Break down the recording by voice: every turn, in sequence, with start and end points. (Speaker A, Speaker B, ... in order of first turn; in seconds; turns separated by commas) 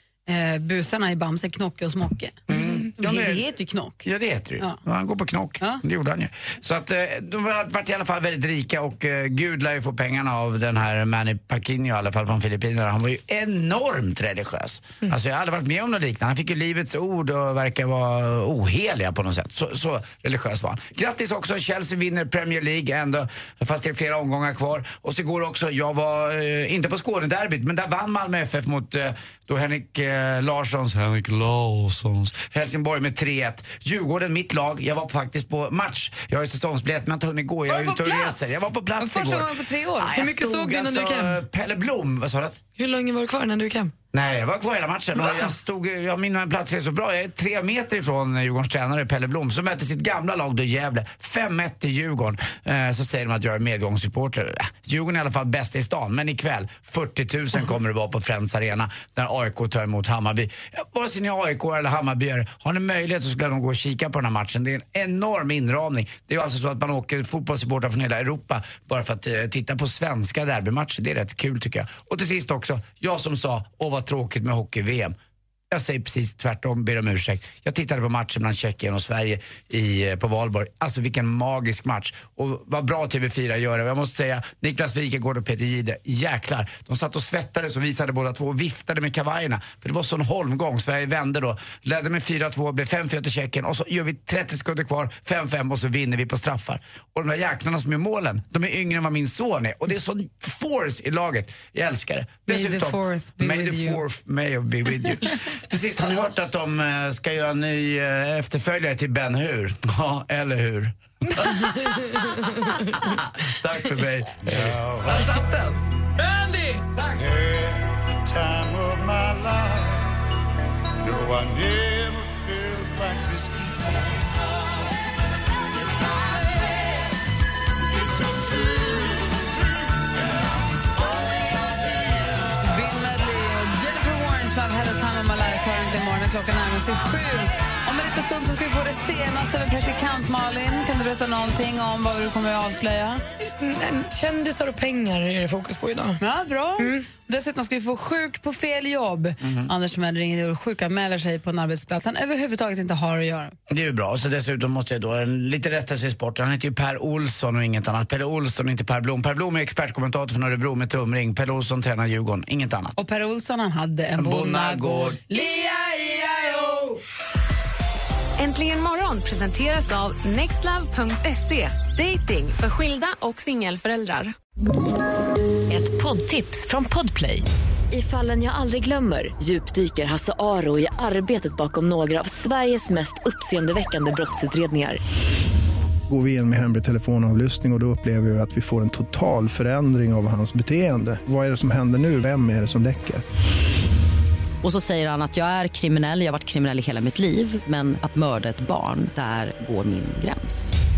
Speaker A: 0.3-4.0, Speaker B: 2.5-3.5, Speaker B: 4.0-42.6, Speaker A: 37.7-40.1, Speaker C: 40.1-41.4, Speaker C: 42.8-43.9, Speaker B: 44.1-75.1, Speaker B: 75.7-115.8, Speaker A: 102.5-104.0, Speaker C: 111.4-113.2, Speaker D: 114.5-115.3, Speaker B: 116.9-117.2, Speaker D: 117.2-120.1, Speaker D: 121.0-124.2, Speaker A: 132.6-143.2, Speaker C: 143.4-146.2, Speaker A: 146.2-153.5, Speaker C: 146.8-147.1, Speaker B: 149.4-149.7, Speaker B: 153.7-163.0, Speaker A: 163.0-166.8, Speaker B: 164.2-165.8, Speaker E: 168.4-174.3, Speaker F: 175.7-185.0, Speaker G: 186.1-193.2, Speaker H: 194.6-200.7